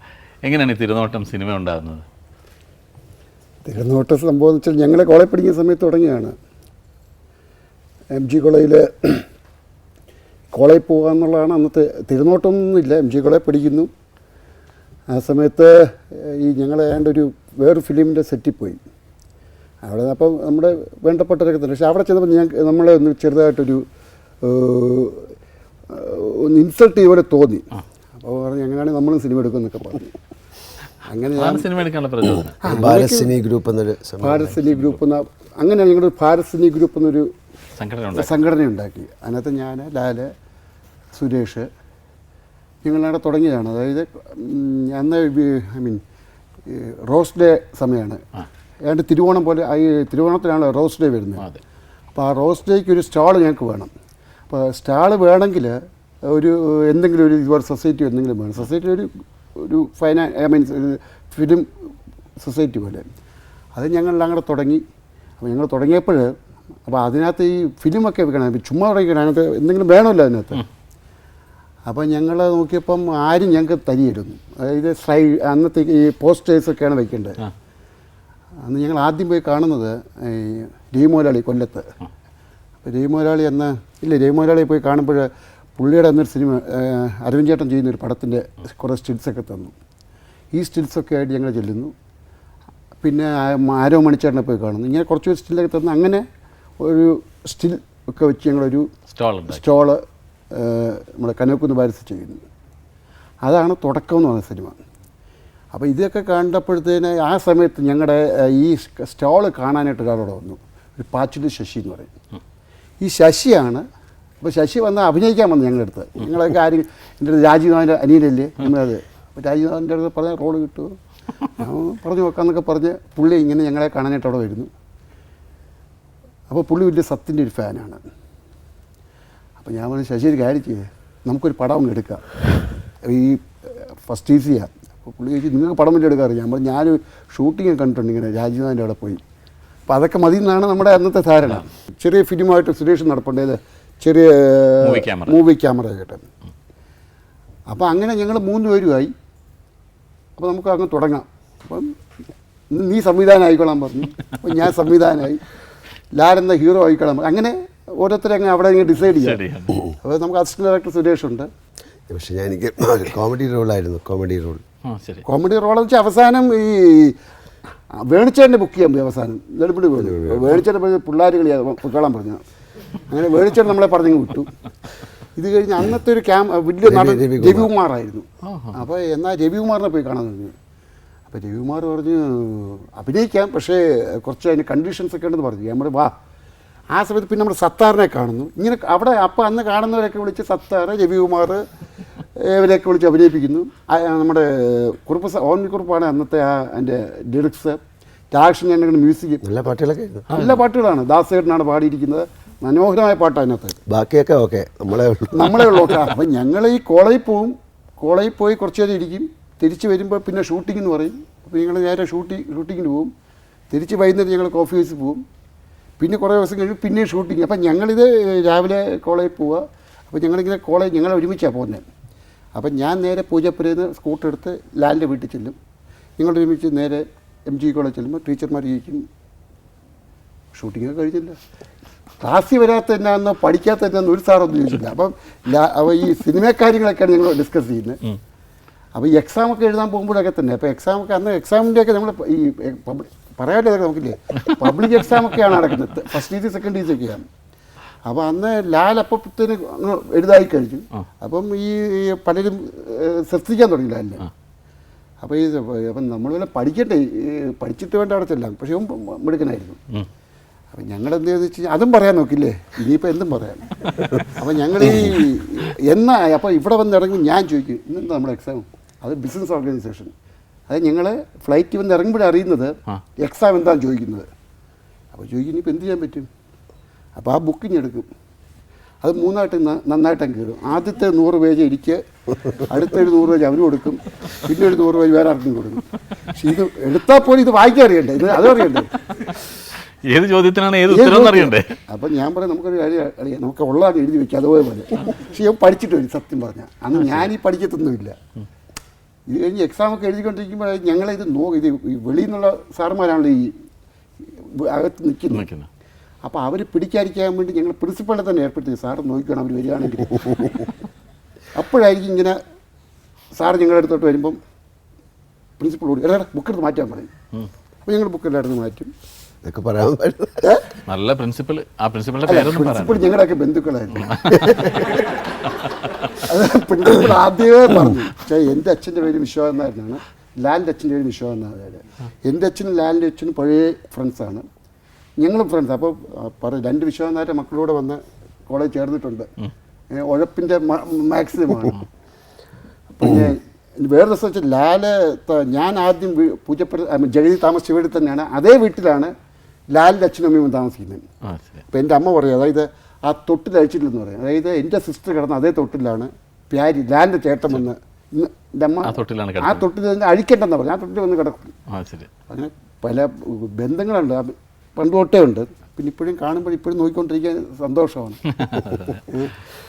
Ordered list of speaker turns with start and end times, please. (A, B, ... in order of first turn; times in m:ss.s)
0:00.4-0:02.0 A
0:03.6-0:06.4 B
0:08.1-0:09.3 B
0:10.5-0:13.9 B
0:15.1-0:18.8 B
0:19.8-0:23.8 B
0:24.4-0:25.3 B
0:25.9-0:30.2 B
0:31.0-0:31.7 B
0:31.4-0:32.6 A
0:32.6-0:33.3 B
0:32.6-0:34.6 C
0:34.2-0:37.3 B
0:37.8-0:38.4 A
0:38.1-0:40.3 B
0:41.1-0:41.7 B
0:42.8-0:46.0 B
0:46.7-0:48.2 B
0:48.8-0:51.5 B
0:52.1-0:53.9 B
0:54.5-1:01.7 B
1:02.4-1:03.0 B
1:03.7-1:04.8 B
1:05.4-1:06.3 B
1:06.9-1:10.6 B
1:11.8-1:17.4 B
1:18.6-1:21.9 B
1:22.8-1:29.7 B
1:30.5-1:31.9 B
1:33.0-1:36.2 B
1:36.8-1:38.9 B
1:39.1-1:39.6 A
1:39.5-1:42.4 B
1:43.4-1:44.8 B
1:45.7-1:52.1 B
1:53.0-1:53.8 B
1:54.4-2:04.7 B
2:06.5-2:08.0 B
2:09.6-2:12.2 B
2:13.0-2:19.2 B
2:19.9-2:26.2 B
2:24.8-2:25.4 A
2:27.7-2:29.1 B
2:30.4-2:31.9 B
2:32.7-2:35.4 B
2:36.1-2:39.4 B
2:39.2-2:39.9 A
2:40.0-2:41.5 B
2:42.1-2:44.6 C
2:44.8-2:45.2 A
2:45.2-2:47.2 B
2:48.0-2:52.4 B
2:50.0-2:50.6 C
2:53.1-2:54.5 B
2:55.4-3:00.5 B
2:56.8-2:57.7 C
2:58.4-2:58.8 A
3:01.3-3:06.1 B
3:06.9-3:11.6 B
3:12.4-3:17.8 B
3:18.3-3:19.4 B
3:19.4-3:20.3 C
3:20.3-3:23.8 B
3:23.9-3:25.6 C
3:25.3-3:33.1 B
3:33.7-3:35.2 B
3:36.0-3:41.8 B
3:42.5-3:45.6 B
3:46.2-3:49.0 B
3:50.5-3:51.4 B
3:52.2-3:58.0 B
3:58.9-4:07.2 B
4:08.0-4:14.3 B
4:15.2-4:19.8 B
4:20.7-4:23.7 B
4:24.2-4:30.1 B
4:30.7-4:34.3 B
4:35.1-4:36.3 B
4:37.2-4:38.1 B
4:39.0-4:42.0 B
4:42.5-4:48.9 B
4:50.0-4:51.7 A
4:50.9-4:58.2 B
4:57.0-4:57.3 A
4:59.3-5:03.5 B
5:04.3-5:05.4 B
5:05.3-5:05.7 A
5:06.2-5:10.7 B
5:11.5-5:12.4 B
5:13.4-5:14.4 B
5:15.6-5:17.1 B
5:17.8-5:18.9 B
5:19.4-5:20.4 C
5:20.9-5:23.0 A
5:22.2-5:25.2 B
5:24.0-5:24.4 A
5:26.0-5:34.4 B
5:35.2-5:39.3 B
5:39.9-5:41.8 B
5:42.9-5:49.1 B
5:49.7-5:51.0 B
5:51.2-5:51.6 A
5:51.7-6:01.5 B
5:58.8-5:59.6 A
6:01.7-6:02.1 A
6:02.3-6:08.2 B
6:08.3-6:09.1 A
6:09.1-6:09.3 B